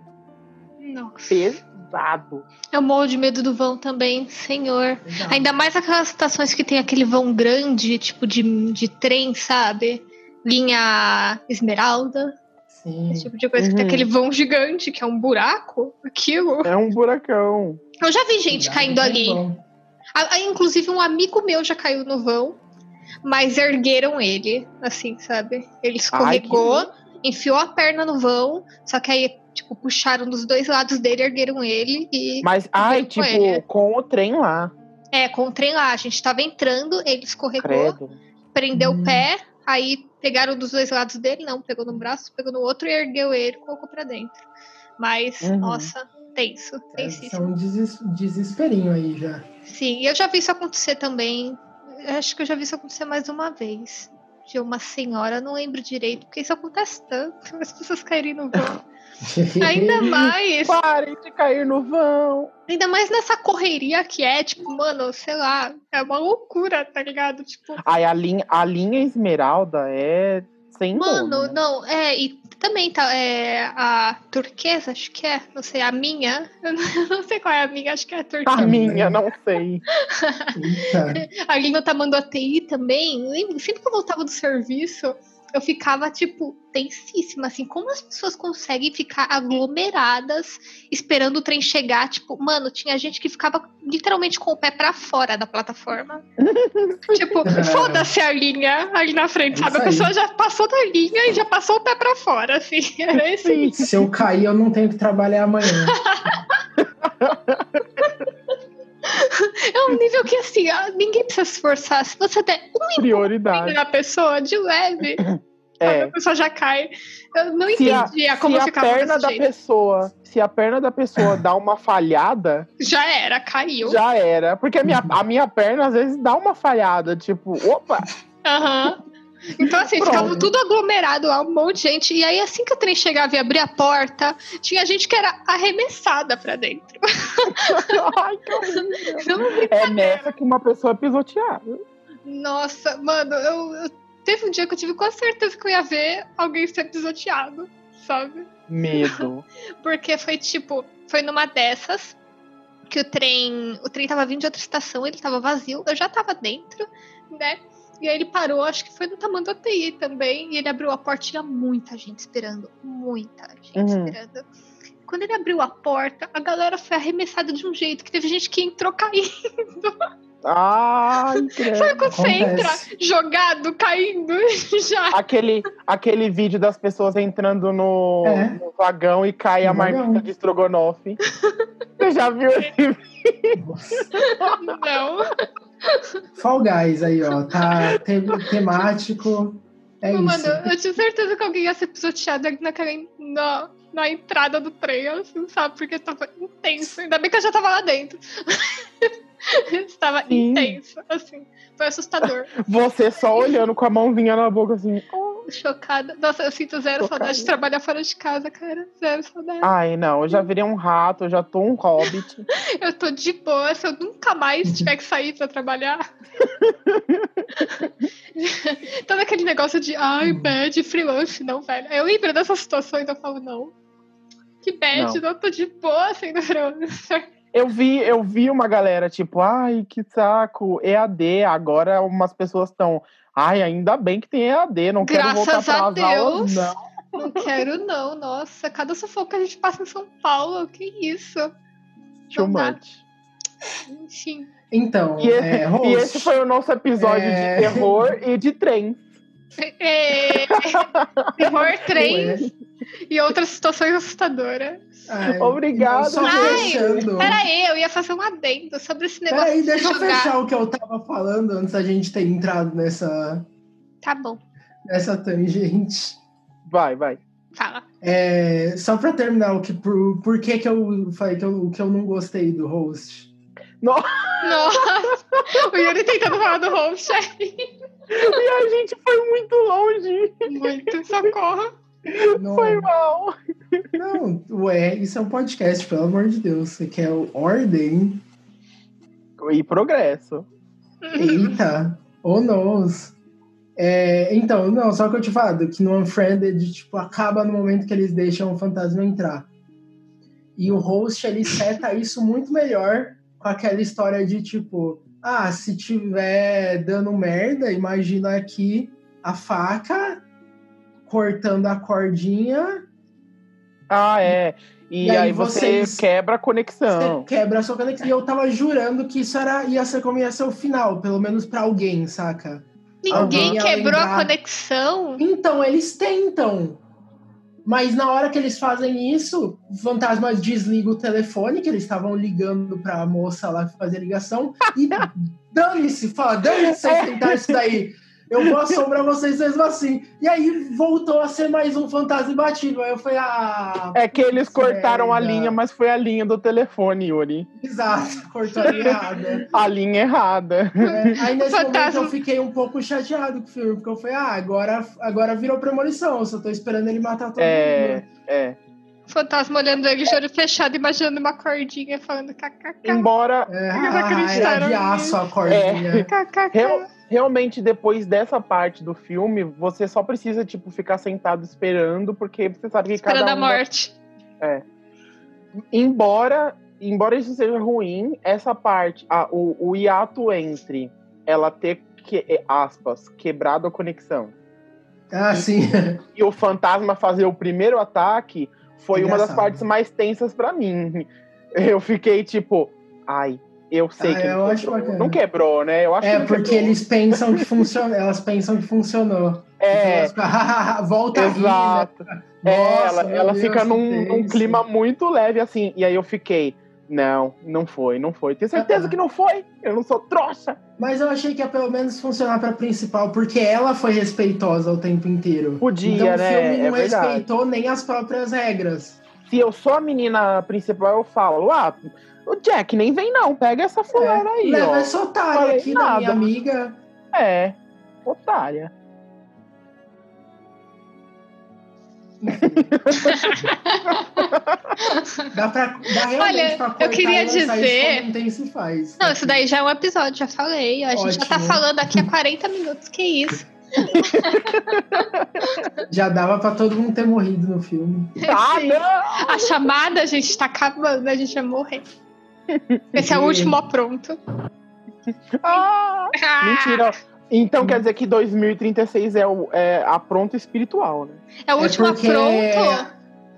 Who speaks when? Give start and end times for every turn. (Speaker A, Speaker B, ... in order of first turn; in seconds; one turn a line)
Speaker A: 0.8-1.5
Speaker B: 1.3-2.5
Speaker A: 2.7-12.3
Speaker C: 5.0-5.5
Speaker C: 12.7-13.3
Speaker A: 13.1-16.7
Speaker B: 13.6-14.1
Speaker B: 16.6-17.8
Speaker A: 18.0-19.4
Speaker C: 18.5-19.6
Speaker A: 20.1-22.6
Speaker A: 23.2-33.6
Speaker B: 26.1-26.9
Speaker B: 32.4-34.7
Speaker A: 35.1-38.0
Speaker B: 37.6-38.2
Speaker A: 38.5-44.4
Speaker C: 38.7-39.3
Speaker A: 45.0-47.5
Speaker B: 45.4-45.9
Speaker C: 46.9-49.5
Speaker A: 49.7-58.8
Speaker C: 59.2-60.1
Speaker A: 59.6-60.8
Speaker B: 60.0-62.5
Speaker A: 62.7-67.8
Speaker B: 67.8-71.6
Speaker A: 70.9-78.8
Speaker B: 78.5-79.8
Speaker C: 78.5-79.2
Speaker A: 80.0-80.6
Speaker C: 80.5-81.2
Speaker A: 81.1-96.2
Speaker B: 96.4-97.5
Speaker A: 97.1-103.8
Speaker C: 97.5-98.1
Speaker C: 99.5-100.1
Speaker B: 103.4-103.9
Speaker C: 103.8-106.0
Speaker A: 105.7-106.4
Speaker B: 106.8-108.1
Speaker A: 109.0-115.2
Speaker B: 113.0-113.8
Speaker B: 115.2-116.1
Speaker A: 115.8-119.4
Speaker B: 117.7-122.7
Speaker A: 122.8-124.0
Speaker B: 123.8-128.1
Speaker C: 124.9-125.1
Speaker A: 128.4-129.0
Speaker A: 129.5-138.0
Speaker B: 129.9-130.4
Speaker C: 130.1-130.5
Speaker B: 137.5-141.8
Speaker A: 138.6-140.3
Speaker A: 142.2-148.5
Speaker B: 148.7-149.4
Speaker A: 149.8-152.2
Speaker A: 152.9-164.5
Speaker B: 163.8-164.2
Speaker A: 165.1-170.0
Speaker B: 170.4-172.0
Speaker A: 171.6-175.2
Speaker C: 172.1-172.9
Speaker B: 175.1-181.2
Speaker C: 178.2-178.6
Speaker C: 179.6-180.3
Speaker A: 181.3-181.6
Speaker B: 182.0-184.7
Speaker C: 183.6-184.1
Speaker A: 184.2-186.2
Speaker C: 186.4-190.7
Speaker A: 190.1-202.7
Speaker B: 200.3-200.8
Speaker B: 202.2-205.4
Speaker A: 205.4-209.7
Speaker B: 207.0-207.5
Speaker B: 209.6-212.4
Speaker A: 212.1-216.0
Speaker B: 216.4-217.5
Speaker A: 217.6-223.7
Speaker C: 220.2-220.6
Speaker A: 224.6-227.3
Speaker B: 224.9-225.2
Speaker B: 227.5-237.4
Speaker A: 235.0-241.5
Speaker B: 242.3-243.0
Speaker A: 242.3-242.8
Speaker A: 243.9-244.5
Speaker C: 244.7-246.3
Speaker B: 245.2-249.0
Speaker C: 247.0-248.1
Speaker A: 249.6-252.5
Speaker B: 250.3-251.6
Speaker C: 251.9-252.5
Speaker A: 253.1-254.9
Speaker C: 255.1-257.4
Speaker B: 255.4-257.0
Speaker A: 256.2-260.3
Speaker C: 259.3-263.4
Speaker A: 264.0-264.4
Speaker C: 264.9-266.2
Speaker B: 266.7-267.2
Speaker A: 267.6-267.8
Speaker C: 268.0-273.3
Speaker B: 273.8-275.9
Speaker A: 274.4-277.7
Speaker B: 278.1-281.2
Speaker A: 280.5-281.7
Speaker B: 282.1-284.0
Speaker C: 282.3-282.9
Speaker C: 283.9-288.2
Speaker B: 289.4-290.5
Speaker A: 291.1-291.6
Speaker C: 291.2-293.1
Speaker C: 293.8-299.5
Speaker C: 300.6-310.2
Speaker C: 311.1-312.8
Speaker B: 313.9-317.3
Speaker C: 315.0-316.1
Speaker C: 316.9-324.3
Speaker A: 323.0-325.2
Speaker B: 323.1-323.6
Speaker C: 325.2-326.8
Speaker C: 327.6-345.6
Speaker B: 336.5-337.6
Speaker B: 343.9-347.5
Speaker C: 347.6-349.4
Speaker B: 348.7-351.0
Speaker A: 350.8-352.1
Speaker C: 350.9-358.0
Speaker B: 357.4-358.6
Speaker A: 359.1-363.1
Speaker B: 362.8-364.6
Speaker C: 363.5-366.1
Speaker A: 363.7-365.2
Speaker B: 365.5-373.6
Speaker A: 366.0-366.9
Speaker A: 373.0-373.9
Speaker B: 375.7-384.3
Speaker C: 385.1-386.0
Speaker B: 386.0-397.7
Speaker C: 388.9-389.6
Speaker C: 394.0-395.2
Speaker C: 396.0-404.6
Speaker B: 399.6-400.1
Speaker B: 401.1-410.6
Speaker C: 408.5-409.0
Speaker C: 410.8-419.0
Speaker B: 415.6-417.2
Speaker B: 419.2-426.2
Speaker C: 423.9-426.8
Speaker B: 427.1-428.7
Speaker C: 432.2-432.7
Speaker B: 432.6-434.8
Speaker A: 432.9-435.3
Speaker C: 435.3-439.4
Speaker A: 436.1-438.0
Speaker A: 439.0-445.7
Speaker C: 440.9-442.1
Speaker B: 443.9-445.6
Speaker C: 445.9-448.2
Speaker A: 448.2-451.8
Speaker B: 448.2-449.6
Speaker B: 452.5-452.9
Speaker C: 452.9-453.6
Speaker A: 452.9-454.2
Speaker B: 455.4-461.2
Speaker A: 455.5-456.9
Speaker C: 457.6-457.8
Speaker A: 461.4-462.9
Speaker C: 461.6-462.9